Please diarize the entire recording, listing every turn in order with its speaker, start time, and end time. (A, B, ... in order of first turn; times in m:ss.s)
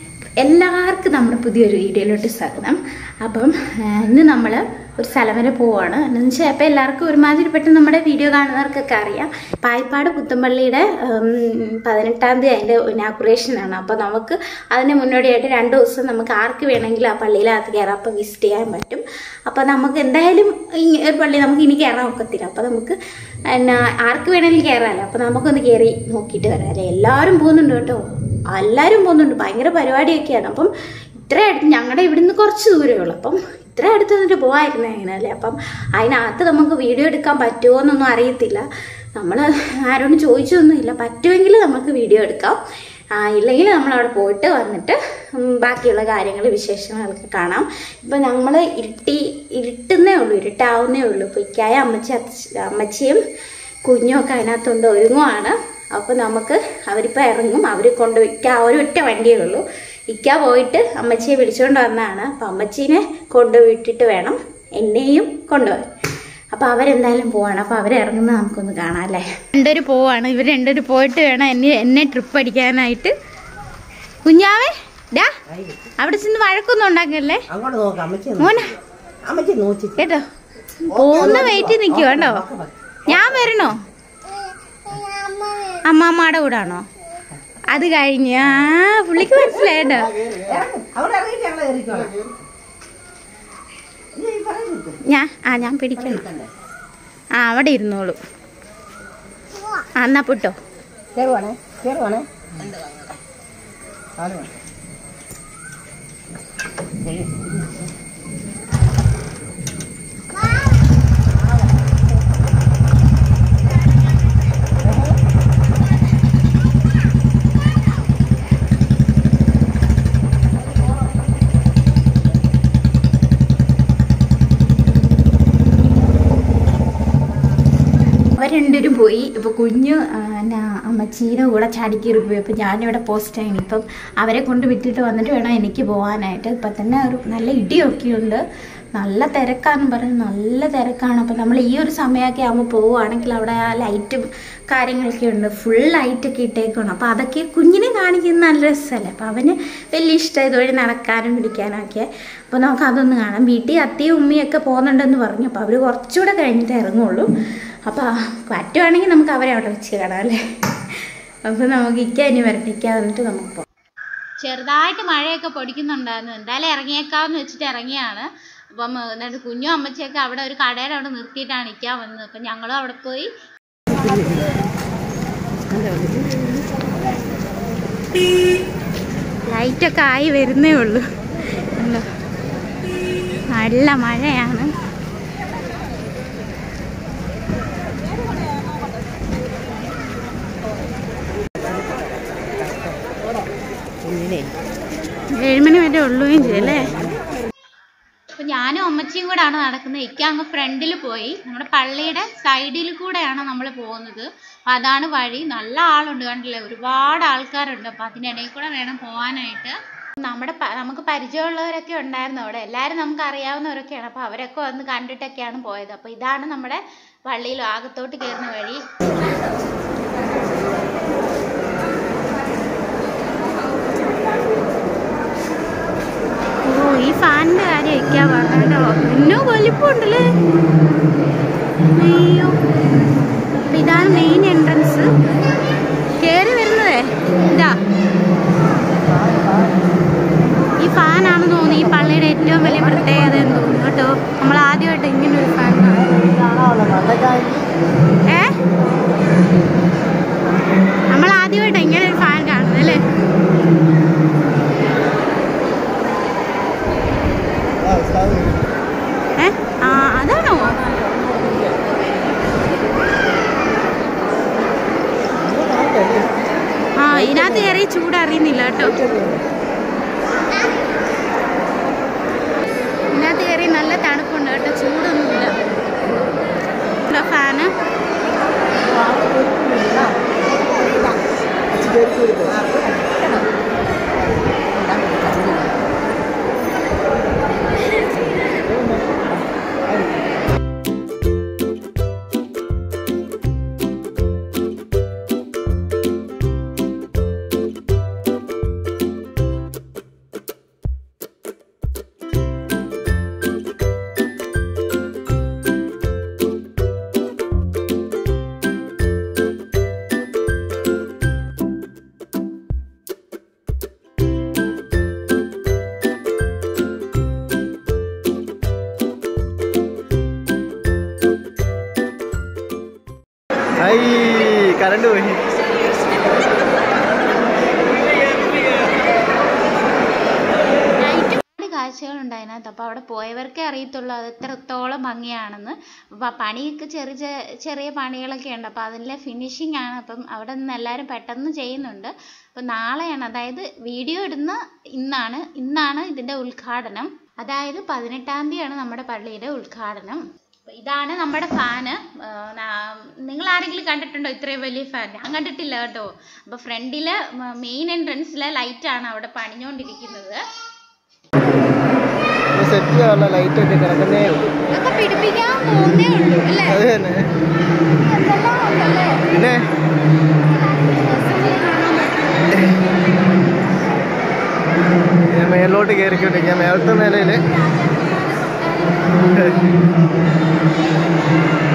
0:00.4-0:23.0 A
0:23.5-0:42.6 A
0:43.2-0:53.2 A
0:53.8-1:05.9 A
1:06.5-1:13.1 A
1:14.2-1:15.4 A
1:15.5-1:15.8 B
1:16.0-1:17.5 A
1:17.5-1:18.5 B
1:18.4-1:18.8 A
1:19.2-1:20.0 B
1:20.0-1:20.2 A
1:20.8-1:22.4 A
1:20.9-1:22.7 B
1:23.1-1:23.8 A
1:25.6-1:26.9 A
1:27.7-1:30.2 A
1:30.4-1:32.3 B
1:34.1-1:35.0 B
1:35.0-1:36.2 A
1:36.0-1:36.5 B
1:37.4-1:38.2 A
1:40.0-1:40.6 A
1:41.2-1:43.0 B
1:44.2-1:44.5 B
2:08.3-2:18.4 A
2:19.0-2:37.3 A
2:37.9-2:43.7 A
2:44.4-2:53.3 A
2:55.8-2:56.1 B
2:59.5-3:01.1 A
3:01.6-3:02.1 A
3:03.5-3:04.7 A
3:14.0-3:14.5 B
3:15.3-3:17.0 A
3:16.7-3:17.2 B
3:18.4-3:38.8 A
3:46.7-3:50.4 A
3:51.8-3:52.6 A
3:53.6-3:55.2 A
3:56.2-3:57.8 A
3:59.2-3:59.7 C
4:00.8-4:06.3 A
4:06.2-4:07.7 C
4:08.3-4:08.6 A
4:11.1-4:13.1 A
4:17.8-4:18.7 C
4:19.4-4:21.1 A
4:25.6-4:26.0 B
4:25.7-4:26.2 C
4:27.0-4:29.0 A
4:29.0-4:29.4 C
4:33.1-4:35.6 A
4:37.0-4:37.7 A
4:38.9-4:41.2 B
4:41.7-4:42.6 C
4:42.6-4:43.5 B
4:44.7-4:45.8 B
4:48.7-4:49.2 C
5:23.8-5:25.4 C
5:30.9-6:00.4 A
6:02.5-6:04.5 C
6:04.7-6:06.8 A
6:06.6-6:07.3 C
6:08.1-6:09.2 A
6:09.3-6:09.7 C
6:11.3-6:12.1 A
6:12.3-6:12.7 C
6:15.3-6:17.4 C
6:19.1-6:19.7 C